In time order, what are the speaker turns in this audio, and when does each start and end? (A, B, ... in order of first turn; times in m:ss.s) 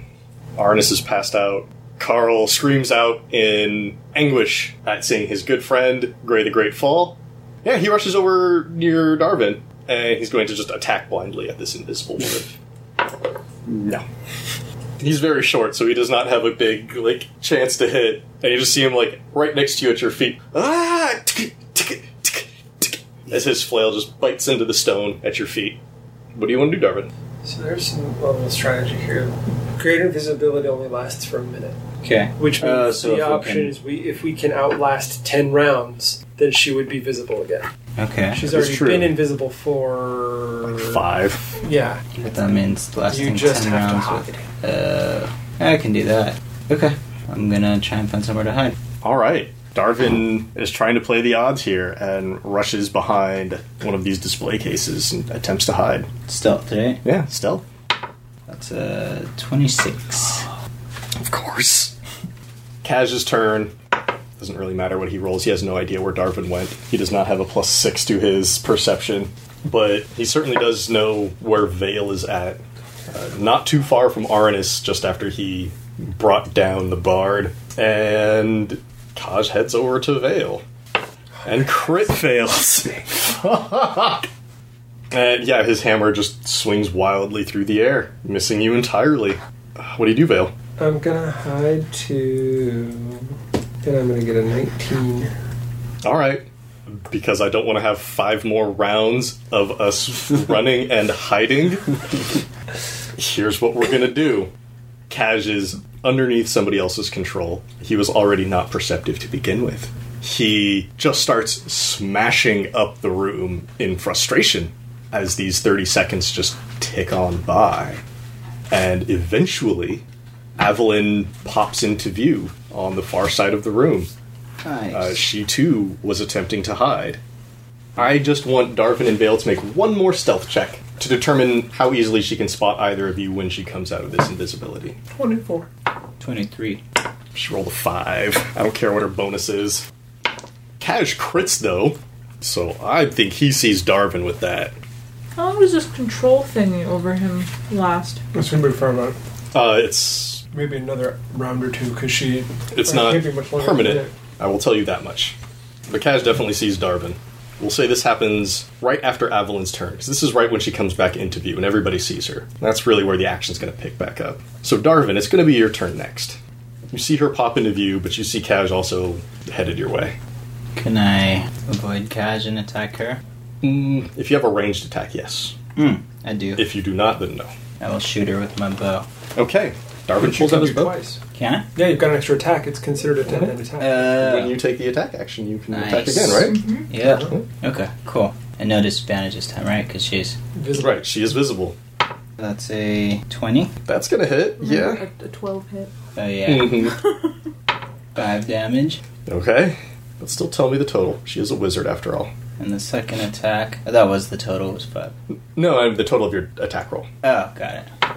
0:00.6-0:12.6 A
0:13.7-0:14.0 A
0:15.0-0:25.8 A
0:26.4-0:27.1 A
0:27.4-0:31.8 B
0:32.0-0:33.8 C
0:32.4-0:37.7 B
0:38.0-0:38.4 C
0:38.3-0:41.0 B
0:38.4-0:39.2 A
0:40.7-0:41.6 A
0:41.6-0:42.0 B
0:42.2-0:48.8 C
0:43.1-0:44.5 B
0:49.0-0:56.1 A
0:56.3-0:57.0 C
0:57.0-0:57.6 A
0:58.5-1:00.5 C
1:01.2-1:01.9 A
1:02.8-1:03.7 A
1:04.4-1:20.6 A
1:21.4-1:24.3 A
1:25.1-1:30.5 A
1:30.8-1:35.3 B
1:36.0-1:41.9 A
1:43.2-1:44.5 A
1:45.1-1:58.0 A
1:58.7-2:00.0 A
2:00.6-2:04.1 A
2:04.6-2:05.2 C
2:04.9-2:07.2 A
2:08.0-2:15.0 A
2:15.2-2:15.7 D
2:16.2-2:16.8 C
2:17.4-2:19.8 A
2:20.8-2:24.8 A
2:25.4-2:28.2 D
2:28.3-2:29.2 B
2:29.5-2:30.4 A
2:30.5-2:34.1 B
2:32.7-2:35.4 A
2:35.9-2:46.4 A
2:46.9-2:50.2 A
2:50.8-2:53.2 C
2:53.6-2:55.6 A
2:55.8-2:56.7 C
2:56.6-2:57.5 A
2:57.8-2:59.1 C
2:59.4-3:01.0 A
3:00.2-3:01.2 B
3:01.3-3:01.7 C
3:01.8-3:04.2 B
3:03.3-3:03.5 A
3:03.8-3:04.6 C
3:04.1-3:06.6 A
3:05.7-3:10.4 C
3:06.4-3:06.9 D
3:07.0-3:07.3 B
3:10.6-3:11.1 B
3:10.7-3:11.8 A
3:12.4-3:13.7 C
3:13.9-3:15.0 A
3:14.6-3:15.9 D
3:16.2-3:16.9 C
3:16.5-3:17.0 A
3:18.2-3:19.0 C
3:19.3-3:22.3 A
3:22.6-3:25.1 C
3:25.6-3:27.1 A
3:27.2-3:27.9 C